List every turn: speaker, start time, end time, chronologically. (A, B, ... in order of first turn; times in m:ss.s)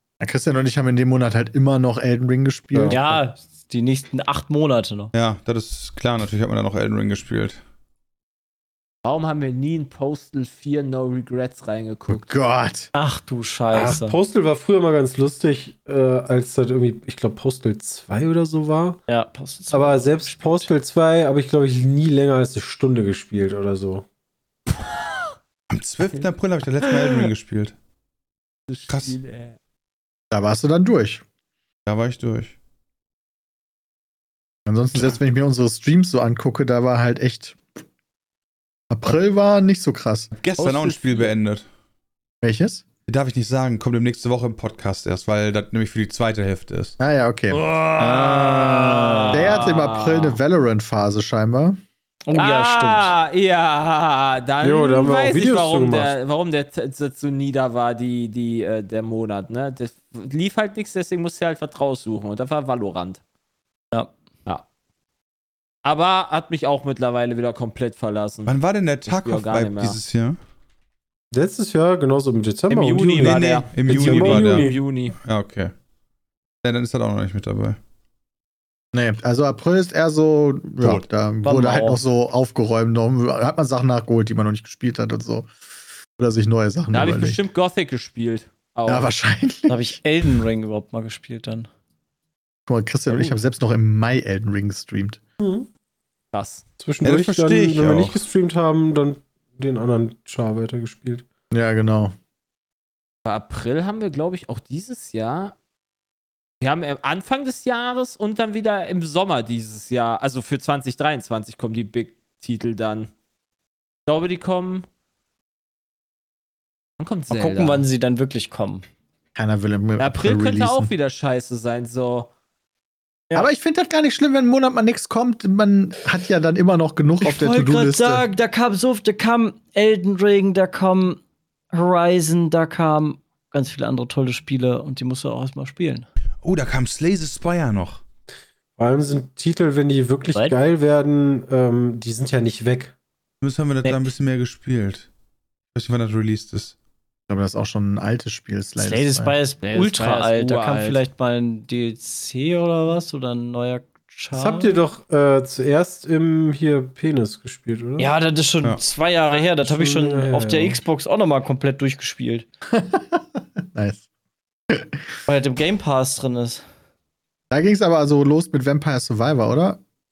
0:00.2-0:03.1 A
0:02.7-0:03.2 B
0:02.9-0:05.1 C
0:05.1-0:07.6 D
0:09.0-0:12.3 E
0:12.1-0:12.9 A
0:12.9-0:14.2 C
0:13.7-0:19.0 B
0:19.1-0:20.7 C
0:19.7-0:24.0 B
0:24.7-0:25.3 E
0:25.7-0:27.8 D
0:26.8-0:27.3 E
0:28.7-0:29.6 E
0:28.9-0:29.2 D
0:30.3-0:31.2 A
0:31.9-0:32.6 D
0:34.7-0:37.6 A
0:38.9-0:40.3 A
0:40.4-0:41.6 D
0:40.6-0:41.3 E
0:42.4-0:42.9 A
0:43.1-0:47.0 D
0:47.0-0:51.8 A
0:47.5-0:50.4 E
0:52.3-0:53.2 C
0:52.4-1:03.2 E
0:54.6-0:56.1 B
1:05.8-1:08.5 E
1:08.5-1:10.4 D
1:09.1-1:10.0 E
1:11.3-1:14.8 B
1:12.7-1:15.2 E
1:13.2-1:15.7 D
1:16.6-1:17.8 D
1:18.9-1:25.5 A
1:21.4-1:22.0 C
1:26.2-1:27.4 A
1:26.9-1:29.1 E
1:28.9-1:30.0 A
1:29.7-1:31.7 C
1:32.7-1:35.2 A
1:35.4-1:35.7 B
1:36.3-1:36.6 E
1:36.8-1:41.2 B
1:37.0-1:38.2 D
1:41.5-1:42.2 A
1:43.2-1:45.6 E
1:46.6-1:53.1 E
1:54.1-1:54.9 E
1:57.0-1:57.9 E
1:57.3-1:58.8 C
1:59.4-2:00.9 A
2:00.0-2:02.3 E
2:03.3-2:08.2 A
2:07.2-2:11.2 C
2:11.7-2:16.1 C
2:16.4-2:18.0 D
2:18.8-2:22.9 B
2:23.4-2:25.1 D
2:23.8-2:24.1 C
2:25.7-2:26.7 D
2:27.3-2:29.4 A
2:28.8-2:34.8 C
2:29.6-2:31.0 E
2:34.3-2:38.1 B
2:38.0-2:42.5 C
2:39.6-2:40.8 B
2:42.7-2:44.0 A
2:44.7-2:45.0 A
2:45.3-2:46.6 C
2:47.5-2:49.8 A